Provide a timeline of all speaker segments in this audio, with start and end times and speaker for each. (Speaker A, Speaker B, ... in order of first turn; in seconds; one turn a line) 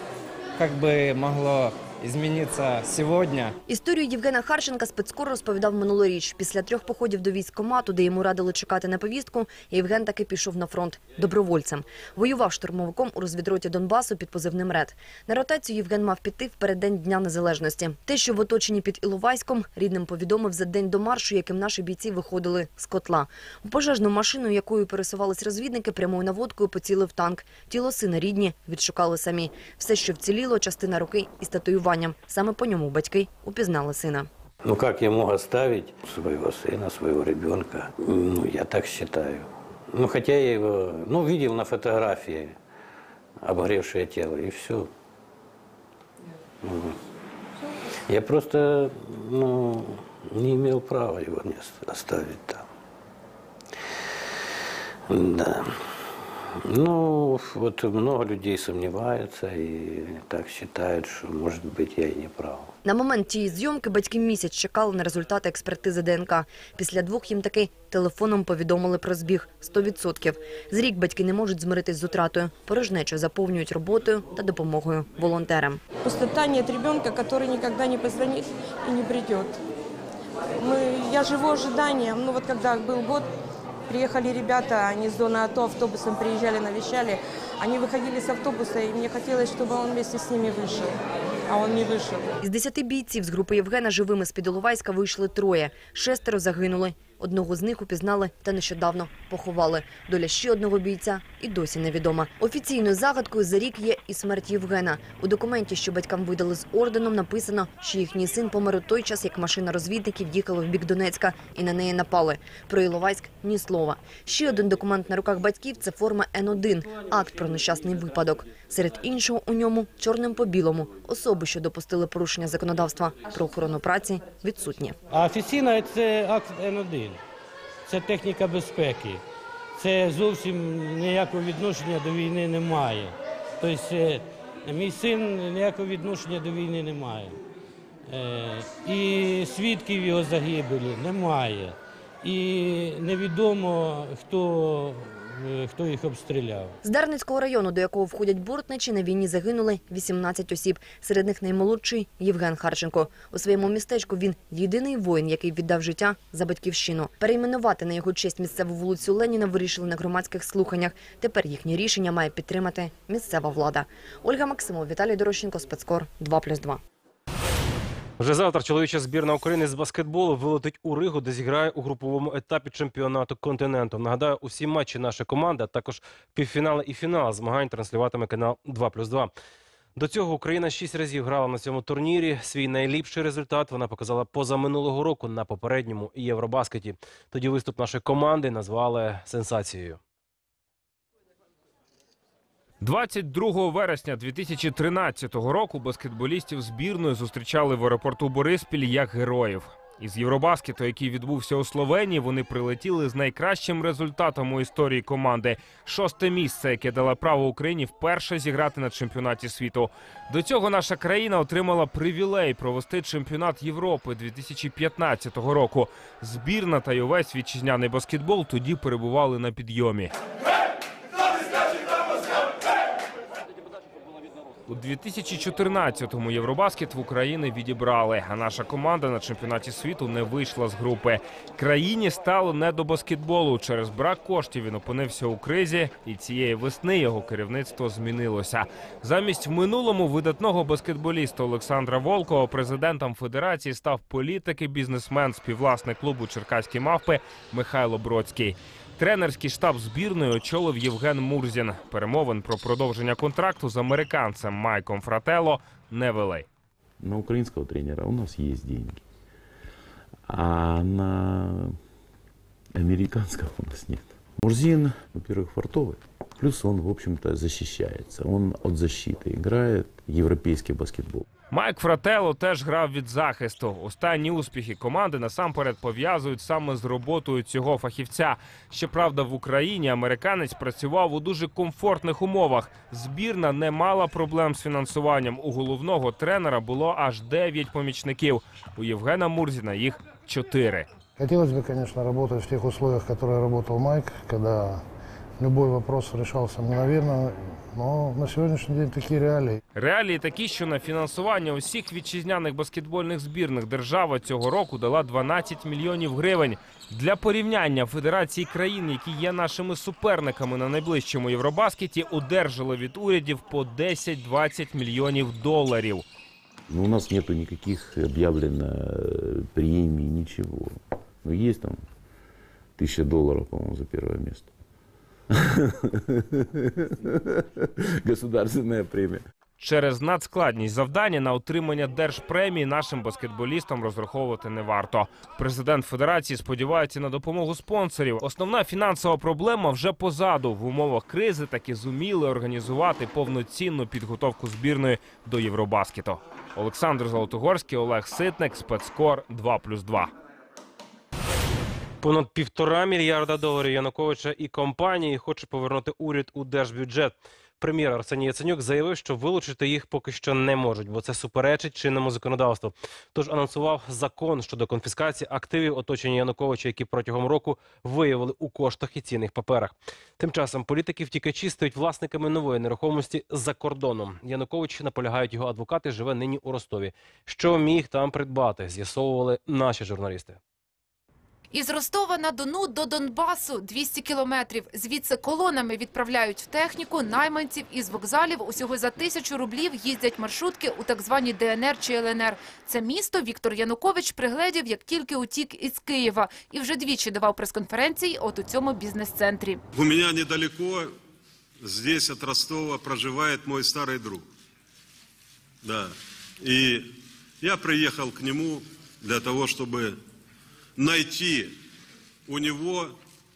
Speaker A: 0.6-3.6
Speaker B: 3.7-34.3
Speaker C: 34.6-42.6
Speaker C: 43.4-44.9
Speaker C: 46.6-47.0
Speaker C: 48.1-52.7
Speaker C: 55.1-55.7
Speaker C: 56.6-62.7
Speaker B: 62.8-75.8
Speaker D: 76.0-79.6
Speaker D: 80.6-83.3
Speaker D: 83.9-92.4
Speaker B: 92.4-125.0
Speaker E: 125.1-127.2
Speaker E: 127.9-129.2
Speaker E: 129.8-137.4
Speaker E: 138.1-146.8
Speaker B: 146.8-166.8
Speaker F: 168.2-179.3
Speaker F: 180.0-190.0
Speaker G: 192.8-220.1
Speaker G: 224.7-256.5
Speaker H: 257.0-259.1
Speaker H: 260.3-261.8
Speaker H: 262.8-271.3
Speaker G: 271.5-290.9
Speaker I: 291.2-294.9
Speaker I: 295.4-299.6
Speaker G: 299.8-316.1
Speaker H: 316.7-321.9
Speaker H: 322.8-324.5
Speaker H: 325.6-329.2
Speaker G: 329.6-350.1
Speaker F: 352.0-380.4
Speaker J: 381.5-399.6
Speaker K: 399.8-400.9
Speaker K: 401.6-404.3
Speaker K: 405.6-410.0
Speaker K: 410.8-411.6
Speaker K: 412.3-413.0